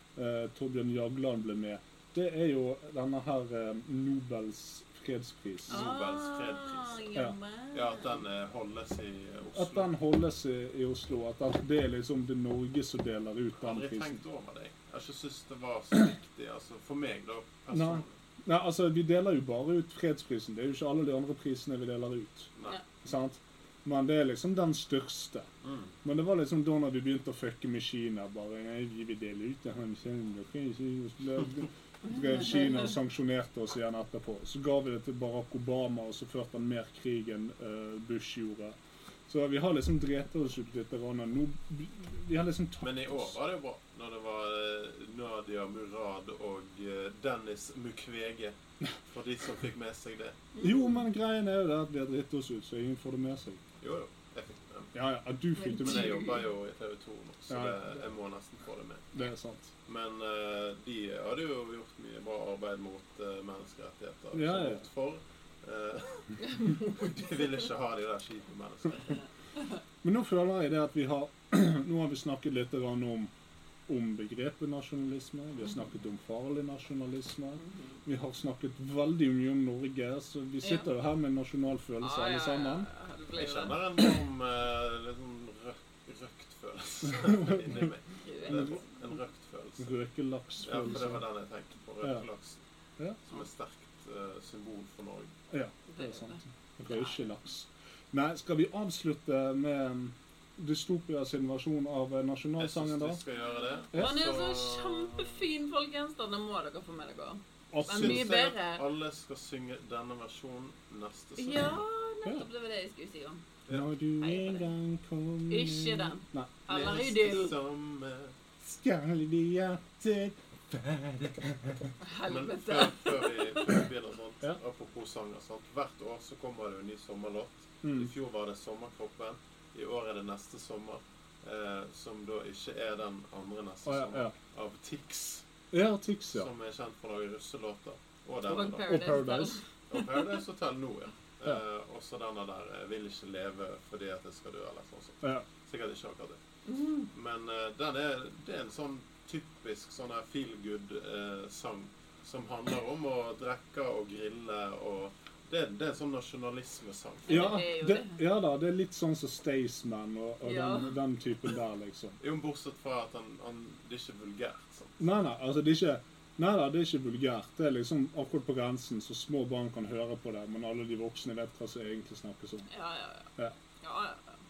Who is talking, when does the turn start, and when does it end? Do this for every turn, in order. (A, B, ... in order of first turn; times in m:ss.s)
0:00.2-0:05.9 A
0:05.7-0:07.0 B
0:05.7-0:08.2 C
0:07.7-0:09.9 B
0:09.5-0:14.2 A
0:13.6-0:18.1 B
0:17.7-0:22.5 A
0:23.0-0:25.5 A
0:25.6-0:25.9 B
0:26.0-0:38.8 A
0:39.3-0:43.3 A
0:42.8-0:48.6 B
0:49.1-0:50.5 B
0:50.6-0:50.8 C
0:50.6-0:53.6 A
0:53.8-0:54.9 B
0:54.9-0:56.3 A
0:55.6-0:56.4 C
0:55.8-0:59.1 B
0:57.5-0:57.8 A
0:59.1-0:59.7 A
0:59.8-1:09.2 B
1:04.3-1:04.8 A
1:06.4-1:07.0 C
1:10.0-1:13.3 A
1:13.9-1:22.9 A
1:17.6-1:18.0 C
1:20.6-1:20.9 C
1:22.0-1:24.1 C
1:23.4-1:29.9 B
1:27.1-1:27.8 A
1:28.2-1:28.8 C
1:29.8-1:31.2 A
1:30.6-1:32.6 B
1:33.3-1:35.3 B
1:35.5-1:43.2 A
1:35.9-1:37.1 C
1:42.6-1:45.4 B
1:43.9-1:48.8 C
1:43.9-1:44.2 A
1:47.7-1:48.3 A
1:47.8-1:51.8 B
1:51.4-1:53.4 C
1:53.7-1:56.5 A
1:54.2-1:54.7 C
1:55.5-1:57.5 C
1:56.7-1:58.3 B
1:58.6-2:01.9 A
2:02.0-2:03.6 C
2:02.2-2:15.4 B
2:07.8-2:08.1 A
2:13.8-2:14.3 A
2:15.7-2:16.5 A
2:16.3-2:19.1 B
2:18.4-2:20.0 C
2:18.9-2:19.6 A
2:19.9-2:26.4 B
2:26.6-2:27.1 C
2:27.1-2:37.5 B
2:37.3-2:38.2 C
2:37.3-2:42.2 A
2:40.4-2:41.0 C
2:42.2-2:45.1 B
2:45.0-2:52.7 A
2:52.7-2:53.3 C
2:53.8-2:54.3 C